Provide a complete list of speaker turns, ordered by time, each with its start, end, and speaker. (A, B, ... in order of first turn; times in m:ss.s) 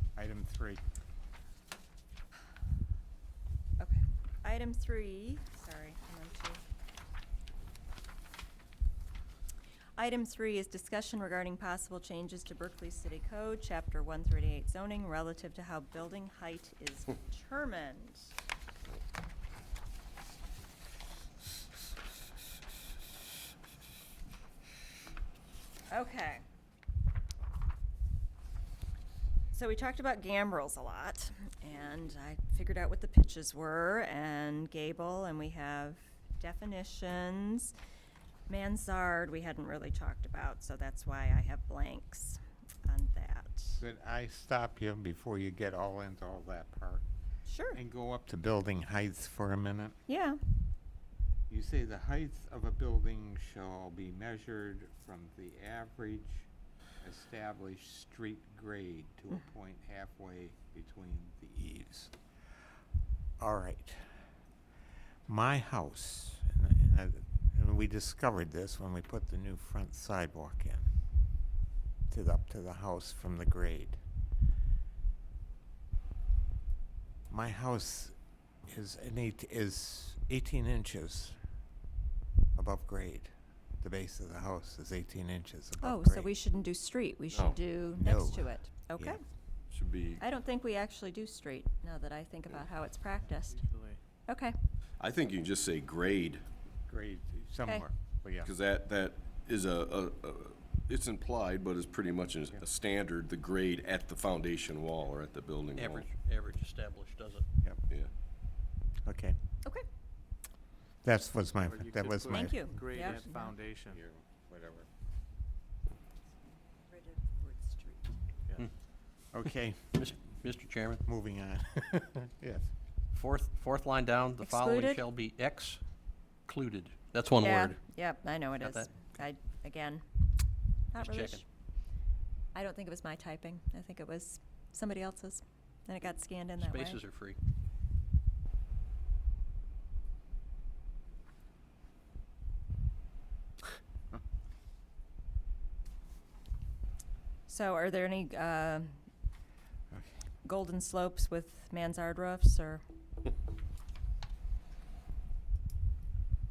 0:00.2-0:00.8 A
0:03.8-0:06.6 B
0:10.0-0:18.3 B
0:25.9-0:26.4 B
0:29.5-0:37.7 B
0:38.5-0:43.8 B
0:43.7-0:47.0 A
0:47.4-0:47.8 B
0:47.7-0:49.9 A
0:50.1-0:50.4 B
0:51.5-0:56.5 A
0:57.0-1:02.1 A
1:03.4-1:04.1 A
1:05.3-1:10.9 A
1:12.1-1:14.0 A
1:17.3-1:18.1 A
1:18.7-1:21.4 A
1:22.6-1:26.3 A
1:25.8-1:29.2 B
1:27.9-1:29.2 A
1:29.7-1:30.2 C
1:30.2-1:33.6 B
1:33.2-1:34.0 D
1:34.3-1:34.5 B
1:35.0-1:36.4 C
1:36.9-1:38.5 A
1:38.4-1:46.1 C
1:45.7-1:47.5 E
1:49.0-1:49.4 A
1:51.0-1:53.2 A
1:51.6-1:54.0 D
1:52.3-1:53.5 B
1:53.8-1:54.9 A
1:56.5-1:58.1 B
1:59.3-1:59.8 A
1:59.9-2:01.0 E
2:01.0-2:02.7 A
2:03.1-2:05.8 E
2:04.4-2:05.0 B
2:06.4-2:07.8 E
2:07.4-2:10.0 B
2:08.6-2:08.9 E
2:10.9-2:11.4 B
2:11.0-2:11.4 E
2:12.5-2:17.0 B
2:16.6-2:17.4 E
2:27.5-2:29.0 B
2:30.4-2:32.8 B